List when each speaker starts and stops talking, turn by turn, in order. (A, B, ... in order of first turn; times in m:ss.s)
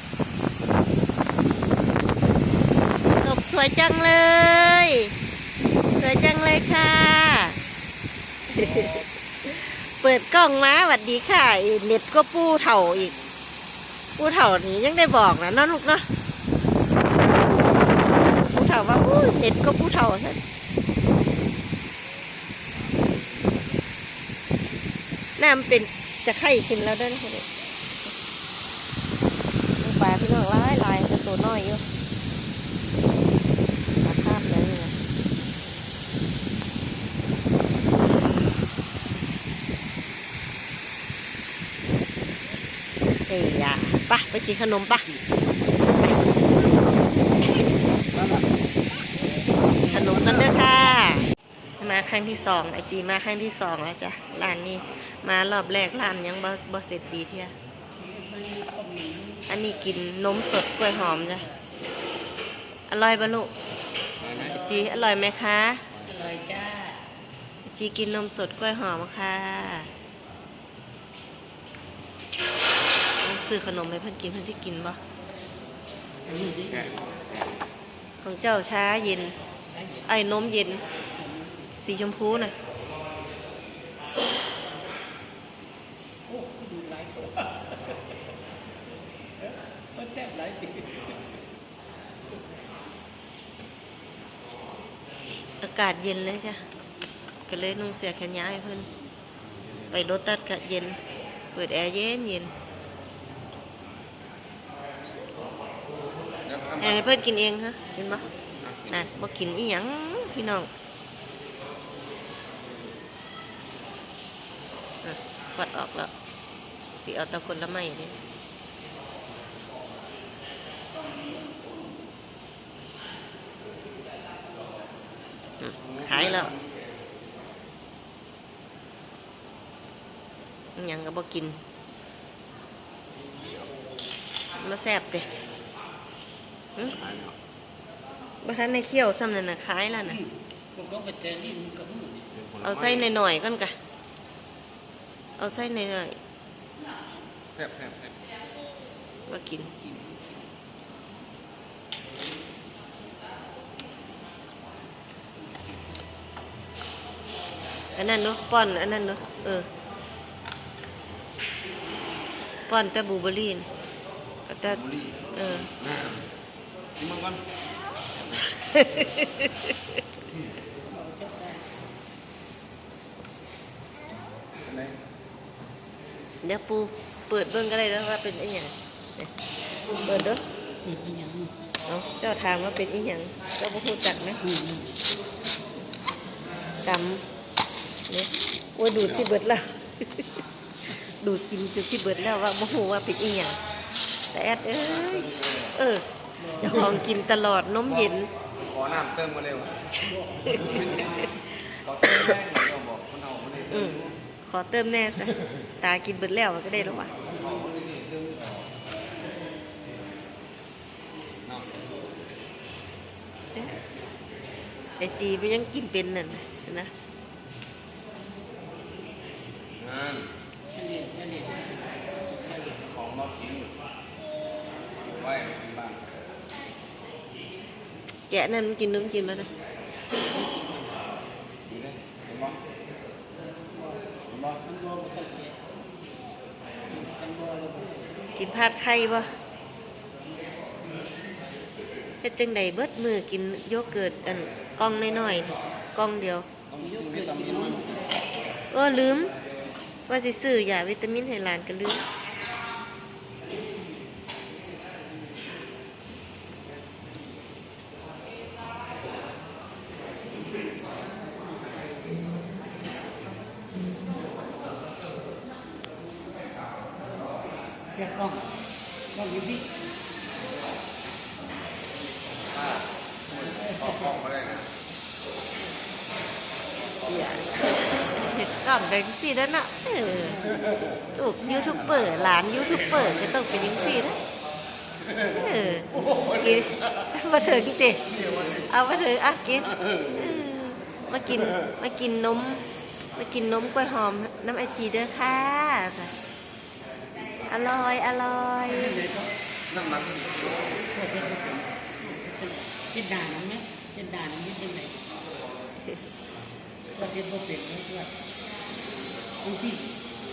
0:03.2-0:05.1 A
0:05.9-0:07.6 A
0:08.5-0:08.9 A
0:08.5-0:09.1 B
0:09.4-0:13.1 A
0:14.2-0:16.1 A
0:18.2-0:20.4 A
0:22.7-0:23.8 B
0:25.4-0:27.4 A
0:29.8-0:31.8 A
0:34.0-0:35.0 A
0:43.3-0:45.1 A
0:48.1-0:48.5 B
0:49.5-0:50.2 C
0:49.9-0:51.3 A
0:50.2-0:50.5 B
0:51.8-0:57.5 A
0:58.0-0:59.9 C
0:59.5-1:01.5 A
1:00.8-1:01.6 C
1:02.9-1:03.5 A
1:04.2-1:04.7 B
1:04.4-1:05.9 A
1:04.4-1:04.9 C
1:05.9-1:06.2 B
1:06.1-1:07.0 C
1:07.7-1:09.9 A
1:13.2-1:15.0 A
1:16.3-1:16.9 C
1:16.7-1:17.0 B
1:18.2-1:19.4 A
1:19.7-1:20.1 C
1:20.1-1:20.8 A
1:21.2-1:21.7 C
1:21.8-1:22.5 A
1:26.3-1:28.2 C
1:29.4-1:31.1 C
1:35.6-1:36.7 A
1:37.5-1:38.9 A
1:39.9-1:41.0 A
1:41.5-1:42.5 A
1:46.4-1:47.2 B
1:46.8-1:48.3 A
1:48.6-1:49.1 B
1:48.9-1:50.7 A
1:55.0-1:56.1 A
1:57.0-1:58.2 A
2:05.6-2:06.6 A
2:06.0-2:06.5 B
2:10.8-2:11.6 A
2:14.6-2:15.3 A
2:16.9-2:17.4 B
2:18.4-2:20.2 A
2:20.1-2:22.3 C
2:22.3-2:23.1 B
2:22.6-2:23.8 A
2:25.4-2:26.2 A
2:27.5-2:28.2 B
2:29.3-2:29.7 A
2:29.8-2:30.1 B
2:38.0-2:39.7 A
2:42.7-2:43.7 A
2:44.5-2:44.8 A
2:44.7-2:46.3 B
2:45.3-2:45.7 A
2:47.0-2:47.4 B
2:48.2-2:48.5 B
2:48.5-2:49.6 A
2:50.9-2:51.7 C
2:54.6-2:55.0 B
2:56.4-2:59.3 A
3:00.0-3:00.4 A
3:00.8-3:01.5 C
3:01.9-3:04.4 A
3:04.4-3:05.0 C
3:06.8-3:07.2 A
3:08.1-3:10.3 A
3:09.0-3:09.3 B
3:10.9-3:13.6 A
3:14.3-3:16.0 A
3:14.8-3:15.8 B
3:16.4-3:16.9 C
3:16.6-3:18.3 A
3:17.9-3:19.9 B
3:20.0-3:21.4 C
3:20.5-3:21.1 B
3:21.8-3:24.2 B
3:23.7-3:27.1 A
3:26.9-3:28.7 B
3:35.0-3:36.9 A
3:39.8-3:40.3 B
3:40.7-3:42.8 C
3:42.8-3:43.8 B
3:45.0-3:46.1 B
3:48.3-3:49.5 A
3:50.2-3:51.0 C
3:51.7-3:52.6 B
3:53.7-3:54.0 C
3:54.3-3:54.6 B
3:54.6-3:55.6 C
3:56.9-3:58.2 C
3:58.4-3:59.3 A
4:02.2-4:06.5 A
4:06.7-4:08.0 B
4:06.8-4:08.2 C
4:08.7-4:09.3 A
4:10.1-4:12.1 A
4:27.9-4:28.6 C
4:29.1-4:29.7 C
4:32.5-4:34.7 B
4:33.6-4:34.0 C
4:37.1-4:40.4 A
4:41.2-4:44.2 A
4:45.4-4:48.0 A
4:48.7-4:52.6 A
4:49.8-4:50.4 B
4:53.2-4:56.1 A
4:57.5-4:59.0 A
4:58.7-4:59.3 C
4:59.7-5:00.9 B
5:00.9-5:05.0 C
5:07.0-5:08.1 C
5:09.4-5:10.0 C